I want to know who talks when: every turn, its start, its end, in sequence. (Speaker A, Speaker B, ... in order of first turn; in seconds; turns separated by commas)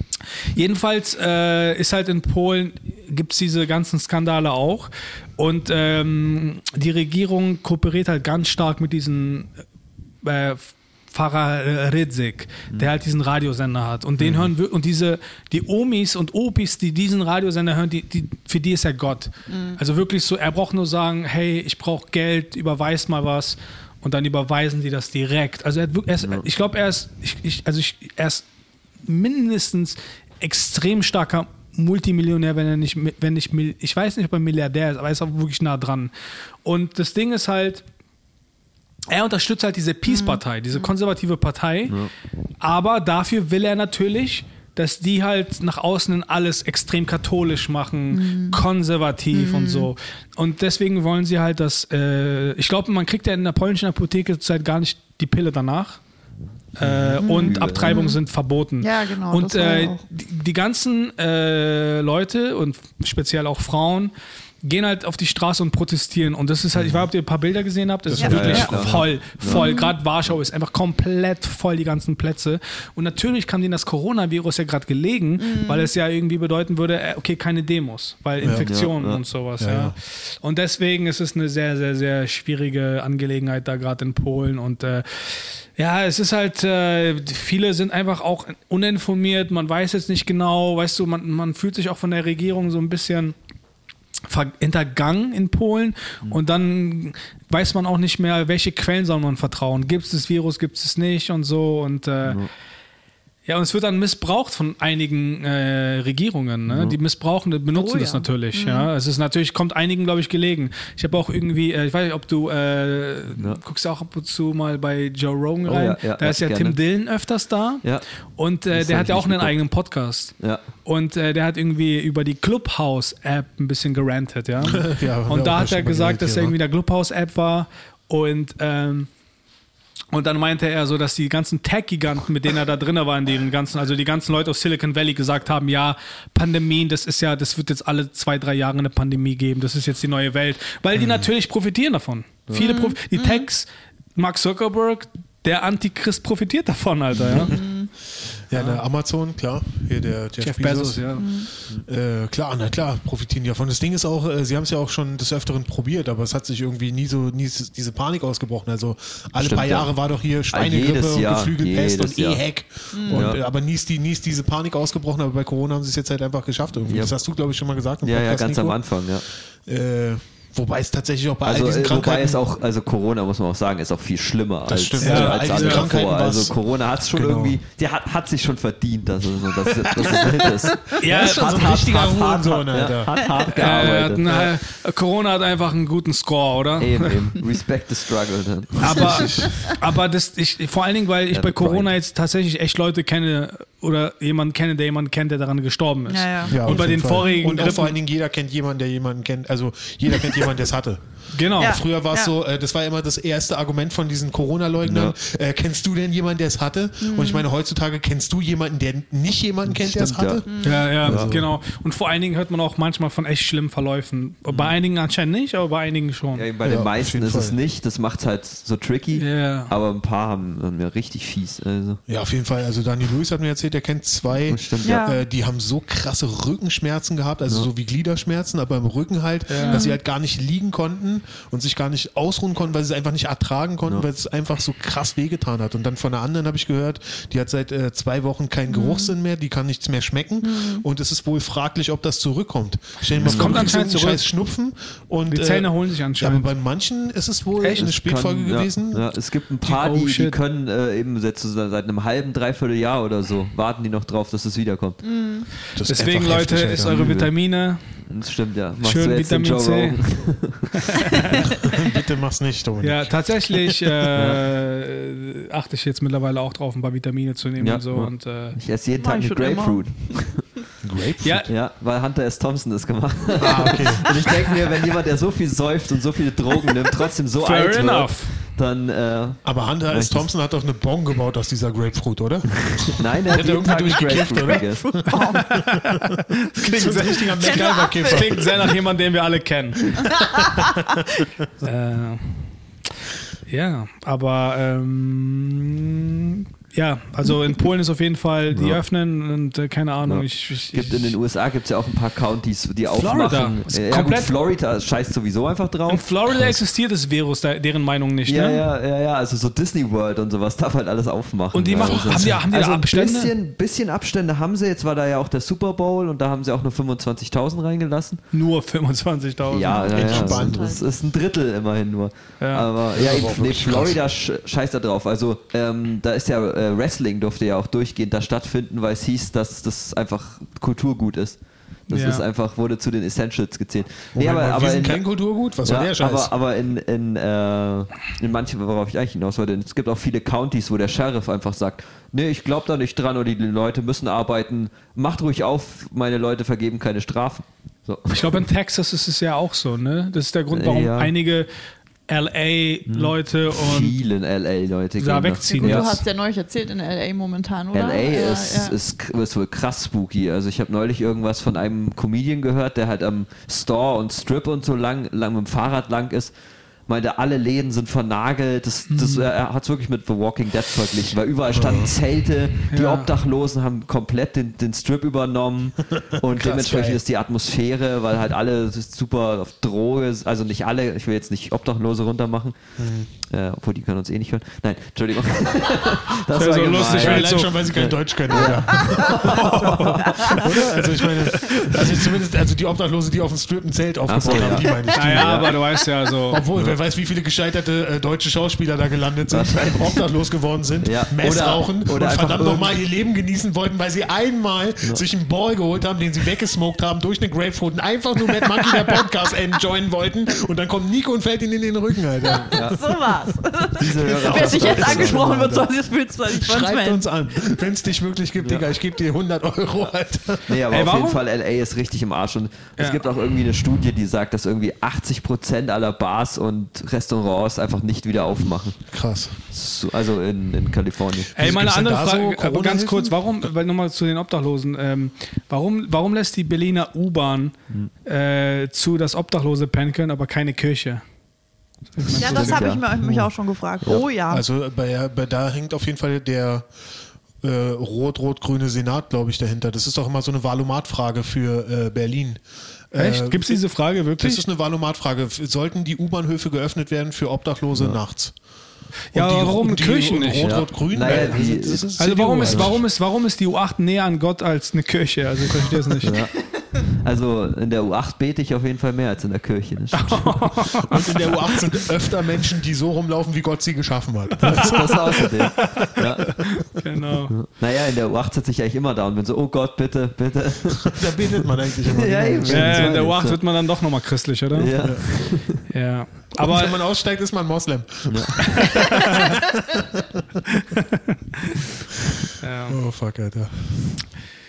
Speaker A: 0.5-9.5, Speaker A: 10.2-28.4, Speaker B: 14.2-14.5, Speaker C: 19.5-19.8, Speaker A: 29.0-36.1, Speaker A: 36.6-37.8, Speaker A: 39.1-42.1, Speaker C: 40.0-40.9, Speaker A: 42.6-56.0, Speaker C: 48.1-48.6, Speaker C: 49.3-49.9, Speaker A: 56.8-64.1, Speaker D: 56.8-58.0, Speaker C: 57.2-58.2, Speaker C: 58.8-60.0, Speaker A: 64.6-93.3, Speaker B: 68.0-69.2, Speaker C: 68.2-68.8, Speaker D: 68.2-69.8, Speaker C: 69.5-69.9, Speaker C: 75.4-75.9, Speaker B: 78.4-78.7, Speaker D: 78.5-79.2, Speaker B: 79.6-80.0, Speaker A: 94.3-102.5, Speaker D: 102.2-102.5, Speaker A: 103.5-129.1, Speaker D: 106.7-107.0, Speaker C: 107.7-108.9, Speaker D: 115.6-116.8, Speaker D: 118.7-119.5, Speaker B: 124.7-126.5, Speaker A: 130.1-147.5, Speaker B: 140.9-141.3, Speaker C: 142.5-143.4, Speaker B: 147.1-147.7, Speaker C: 147.3-147.9, Speaker B: 148.3-172.4, Speaker A: 148.5-148.8, Speaker A: 150.4-151.3, Speaker C: 151.1-151.5, Speaker D: 159.3-162.4, Speaker C: 162.9-163.3, Speaker D: 163.1-163.4, Speaker D: 166.9-167.2, Speaker D: 168.0-169.2, Speaker D: 171.4-184.5, Speaker B: 174.7-177.6, Speaker A: 175.0-175.9, Speaker C: 180.0-180.3, Speaker B: 181.0-183.3, Speaker A: 181.0-181.8, Speaker A: 183.5-187.4, Speaker D: 186.8-189.5, Speaker A: 188.8-197.9, Speaker D: 191.3-191.9, Speaker C: 196.1-197.3, Speaker B: 196.5-211.5, Speaker A: 201.3-201.8, Speaker C: 201.6-202.3, Speaker D: 204.8-205.1, Speaker C: 207.0-207.5, Speaker D: 209.7-211.4, Speaker C: 210.4-210.9, Speaker A: 210.6-216.5, Speaker D: 216.3-222.0, Speaker B: 216.6-217.6, Speaker A: 219.2-219.7, Speaker B: 222.1-249.1, Speaker D: 224.5-225.0, Speaker C: 224.8-225.2, Speaker A: 229.5-229.9, Speaker C: 229.6-230.0, Speaker C: 238.7-239.1, Speaker C: 240.4-240.8, Speaker A: 243.1-244.3, Speaker D: 243.2-243.8, Speaker A: 245.3-246.5, Speaker A: 247.6-247.9, Speaker D: 247.7-255.0, Speaker A: 249.6-250.3, Speaker C: 255.0-255.5, Speaker B: 255.7-257.0, Speaker A: 255.9-258.0, Speaker D: 256.8-257.4, Speaker D: 258.0-260.9, Speaker A: 258.8-261.1, Speaker B: 261.6-263.6, Speaker A: 262.8-268.6, Speaker D: 264.1-264.4, Speaker D: 267.6-270.6, Speaker C: 269.0-270.5, Speaker B: 270.8-271.5, Speaker A: 271.2-271.5, Speaker D: 271.5-280.3, Speaker B: 273.4-274.0, Speaker A: 277.4-278.5, Speaker B: 279.4-285.8, Speaker D: 282.9-285.0, Speaker C: 283.9-285.6, Speaker A: 285.1-290.1, Speaker B: 286.6-288.7, Speaker C: 287.4-288.5, Speaker C: 290.0-290.8, Speaker A: 291.6-292.6, Speaker A: 293.5-301.2, Speaker D: 298.5-298.8, Speaker D: 300.0-306.1, Speaker A: 302.9-304.3, Speaker A: 305.9-308.6, Speaker D: 308.2-318.2, Speaker A: 311.5-313.3, Speaker B: 311.8-312.4, Speaker A: 318.3-320.1, Speaker D: 319.5-348.4, Speaker C: 319.6-320.8, Speaker B: 319.9-320.8, Speaker A: 322.4-322.7, Speaker B: 322.9-324.0, Speaker A: 331.9-332.2, Speaker B: 334.1-336.3, Speaker A: 348.1-351.5, Speaker D: 350.5-351.1, Speaker A: 352.1-353.9, Speaker D: 352.9-356.0, Speaker A: 355.0-356.0, Speaker C: 355.5-358.8, Speaker D: 357.7-366.3, Speaker D: 366.9-390.4, Speaker A: 368.9-369.3, Speaker B: 371.5-371.9, Speaker A: 372.7-373.1, Speaker B: 376.2-377.0, Speaker B: 382.8-383.1, Speaker A: 386.3-387.6, Speaker B: 386.8-389.3, Speaker A: 389.1-390.6, Speaker B: 390.1-395.6, Speaker A: 391.4-392.1, Speaker D: 394.1-395.6, Speaker A: 394.9-396.4, Speaker B: 396.3-412.8, Speaker D: 399.3-400.0, Speaker D: 400.8-402.7, Speaker C: 412.3-417.1, Speaker D: 412.5-412.8, Speaker D: 413.8-415.5, Speaker B: 414.0-415.7, Speaker B: 416.3-420.6, Speaker D: 418.4-418.6, Speaker D: 420.5-431.5, Speaker A: 420.7-421.2, Speaker A: 422.8-423.0, Speaker B: 428.9-429.4, Speaker B: 431.3-433.5, Speaker A: 431.4-441.0, Speaker A: 441.9-442.6, Speaker B: 442.0-443.3, Speaker C: 442.1-444.4, Speaker D: 442.2-442.9, Speaker B: 443.9-446.7, Speaker B: 447.4-458.4, Speaker A: 452.9-454.4, Speaker D: 457.7-458.0, Speaker B: 459.1-462.8, Speaker A: 459.1-466.2, Speaker D: 460.4-462.8, Speaker D: 466.0-470.6, Speaker A: 469.9-471.3, Speaker B: 470.8-474.9, Speaker A: 474.4-477.4, Speaker D: 474.4-476.6, Speaker D: 477.3-481.0, Speaker B: 480.9-483.1, Speaker D: 481.9-483.5, Speaker A: 482.4-486.8, Speaker D: 484.5-485.6, Speaker B: 484.8-485.2, Speaker B: 486.4-490.0, Speaker D: 488.1-488.5, Speaker A: 492.4-492.8, Speaker B: 492.7-494.0